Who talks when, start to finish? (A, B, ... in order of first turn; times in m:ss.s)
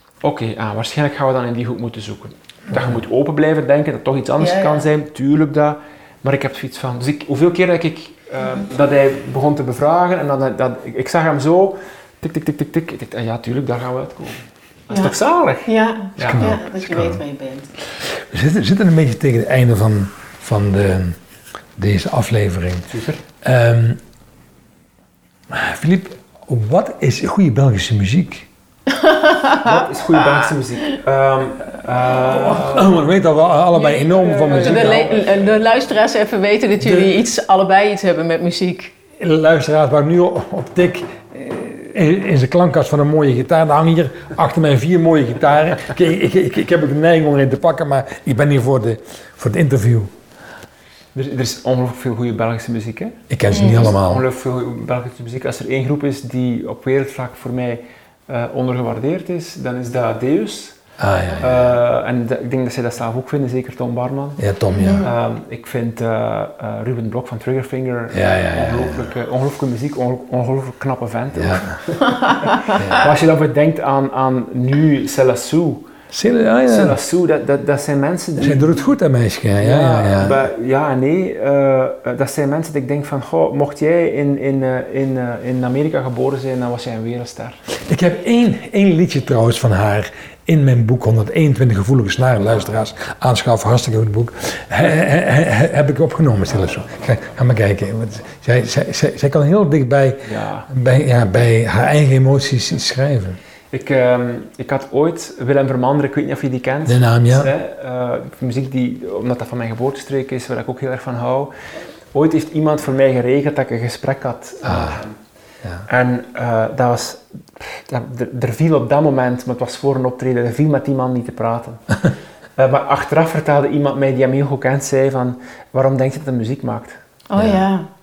0:00.2-0:16.5 A
0:04.4-0:04.8 B
0:15.6-0:17.7 B
0:16.2-0:17.2 C
0:18.0-0:21.2 C
0:21.8-0:22.9 C
0:22.9-0:23.2 A
0:23.4-0:24.0 C
0:25.5-0:28.5 C
0:28.9-0:30.5 B
0:29.6-0:33.0 A
0:32.2-0:35.2 C
0:33.8-0:38.9 B
0:34.3-0:35.2 A
0:36.8-0:37.1 C
0:39.2-0:50.1 C
0:51.1-1:00.8 A
0:53.3-0:54.2 C
0:53.5-0:53.9 B
1:01.0-1:01.7 C
1:01.4-1:04.4 A
1:04.4-1:05.1 C
1:04.7-1:05.1 B
1:05.0-1:15.9 A
1:08.1-1:09.1 C
1:11.3-1:11.8 C
1:12.3-1:12.7 B
1:12.7-1:13.1 C
1:16.1-1:17.0 C
1:16.6-1:18.9 A
1:18.4-1:20.4 C
1:19.6-1:27.6 A
1:27.8-1:43.4 C
1:40.2-1:40.7 A
1:43.7-1:51.5 A
1:46.8-1:47.5 C
1:52.1-1:55.2 A
1:54.6-1:55.0 C
1:55.9-2:02.0 A
2:02.6-2:07.0 A
2:07.3-2:07.9 B
2:07.4-2:07.6 C